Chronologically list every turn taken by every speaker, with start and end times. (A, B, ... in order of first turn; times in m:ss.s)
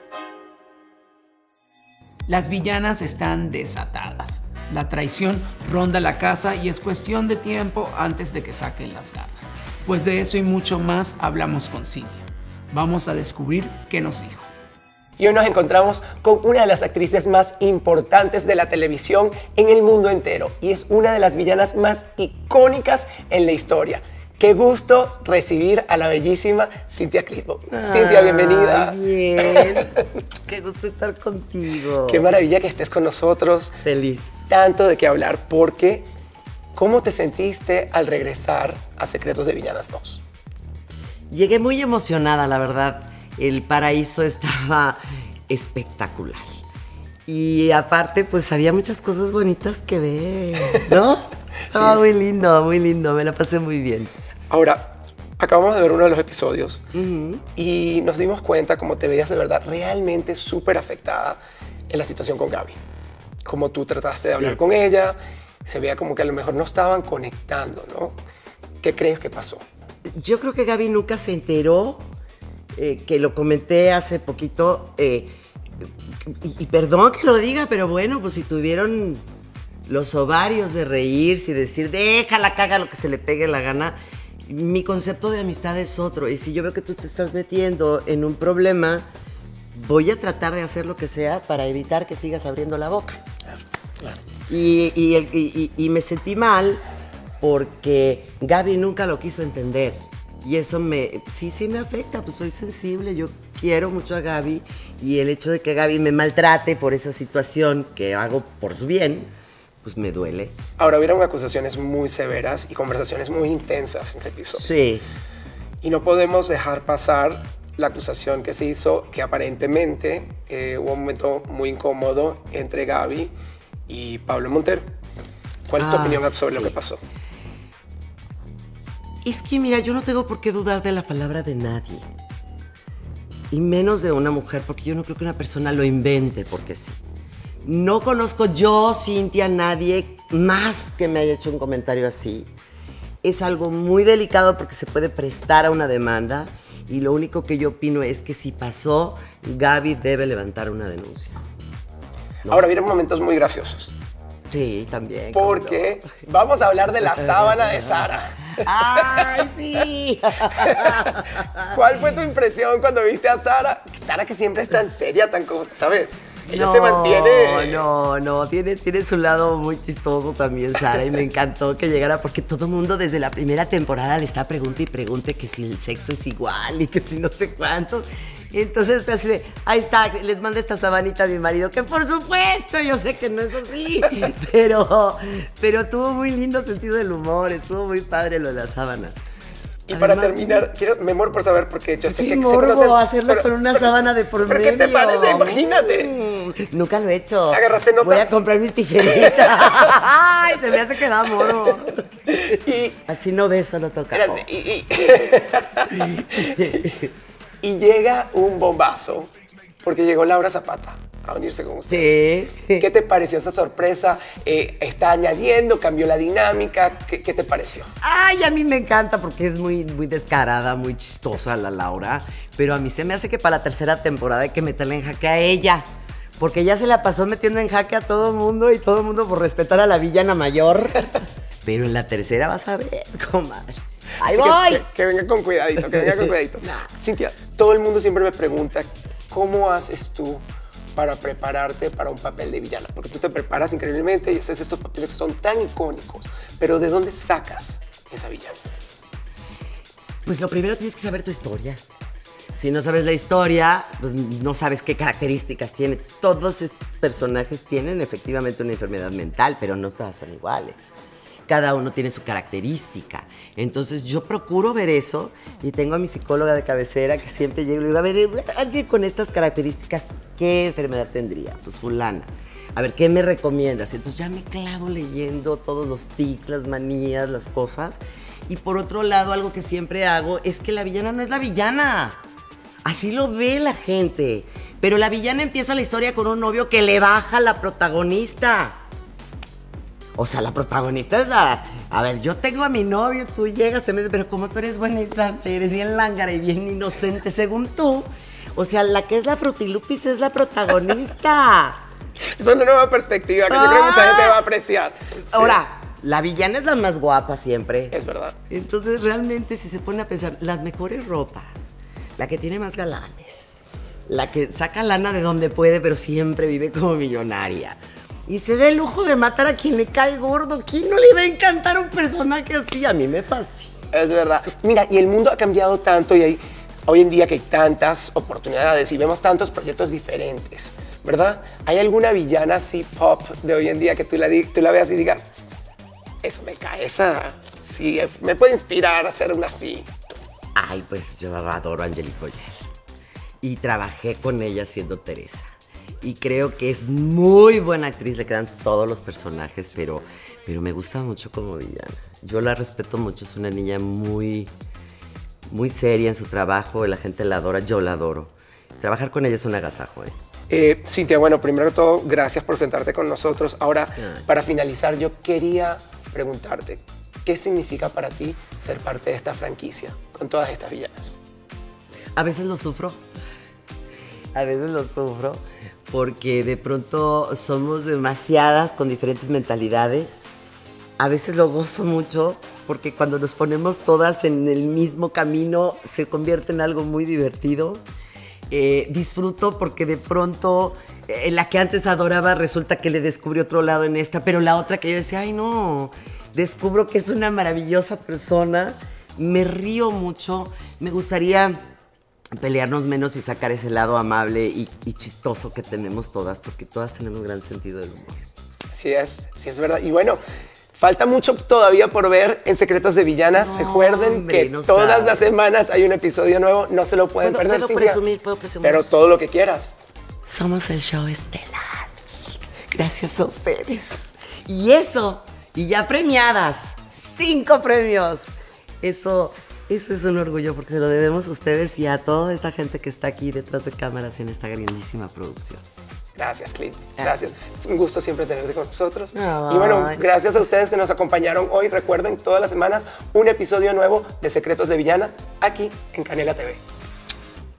0:02.3-0:14.5 A
0:15.2-0:29.8 B
0:27.7-0:32.3 C
0:32.1-0:33.8 B
0:33.8-0:34.4 C
0:34.5-0:36.1 B
0:36.7-0:40.2 B
0:41.3-0:46.4 C
0:47.3-0:54.1 C
0:51.7-0:52.0 B
0:54.5-0:56.8 B
0:56.9-0:57.4 C
0:57.6-1:01.4 B
1:01.9-1:02.8 B
1:03.4-1:08.2 B
1:08.8-1:09.6 B
1:10.2-1:12.0 C
1:12.8-1:19.2 C
1:19.8-1:29.1 C
1:29.7-1:33.2 C
1:34.5-1:36.8 C
1:37.4-1:49.3 C
1:49.8-1:50.5 C
1:50.8-1:54.7 B
1:54.5-1:55.0 C
1:55.8-2:03.3 B
2:03.9-2:04.9 B
2:05.7-2:07.0 B
2:05.7-2:06.8 C
2:09.2-2:12.0 C
2:13.5-2:17.0 C
2:17.6-2:22.5 C
2:23.2-2:31.4 C
2:32.4-2:33.9 B
2:32.4-2:32.7 C
2:34.5-2:36.0 C
2:35.3-2:39.5 B
2:37.2-2:38.1 C
2:38.6-2:41.8 C
2:40.6-2:41.2 B
2:41.7-2:47.8 B
2:46.5-3:09.2 C
3:09.9-3:13.9 B
3:09.9-3:10.7 C
3:12.1-3:22.0 C
3:14.4-3:16.1 B
3:17.5-3:18.3 B
3:19.1-3:19.9 B
3:21.4-3:21.7 B
3:22.3-3:23.0 B
3:23.1-3:24.4 C
3:24.1-3:26.8 B
3:26.2-3:26.9 C
3:27.6-3:29.3 B
3:29.8-3:32.2 B
3:31.9-3:32.9 C
3:32.8-3:37.9 B
3:38.0-3:45.8 C
3:46.4-3:54.8 C
3:54.2-4:00.4 B
3:55.8-3:56.9 C
4:00.9-4:08.6 B
4:10.2-4:11.8 C
4:12.6-4:20.9 C
4:21.5-4:42.2 C
4:42.8-4:48.8 C
4:50.2-5:01.8 C
5:02.4-5:05.6 B
5:03.5-5:04.4 C
5:05.3-5:08.0 C
5:07.9-5:08.4 B
5:08.5-5:11.6 C
5:12.2-5:23.7 C
5:23.9-5:35.3 B
5:36.2-5:39.9 B
5:40.5-5:42.6 C
5:43.4-5:45.4 C
5:46.0-5:54.5 C
5:55.5-6:00.2 C
6:00.5-6:11.2 B
6:04.0-6:04.2 C
6:12.2-6:13.0 C
6:14.3-6:20.3 C
6:21.0-6:27.8 C
6:28.5-6:41.6 C
6:42.3-6:48.2 C
6:48.7-6:50.2 B
6:50.7-6:58.0 B
6:53.3-6:55.2 C
6:57.2-6:58.8 C
6:58.6-6:59.7 B
7:00.2-7:01.9 C
7:02.7-7:08.3 C
7:08.8-7:15.6 C
7:16.2-7:26.6 B
7:19.1-7:20.0 C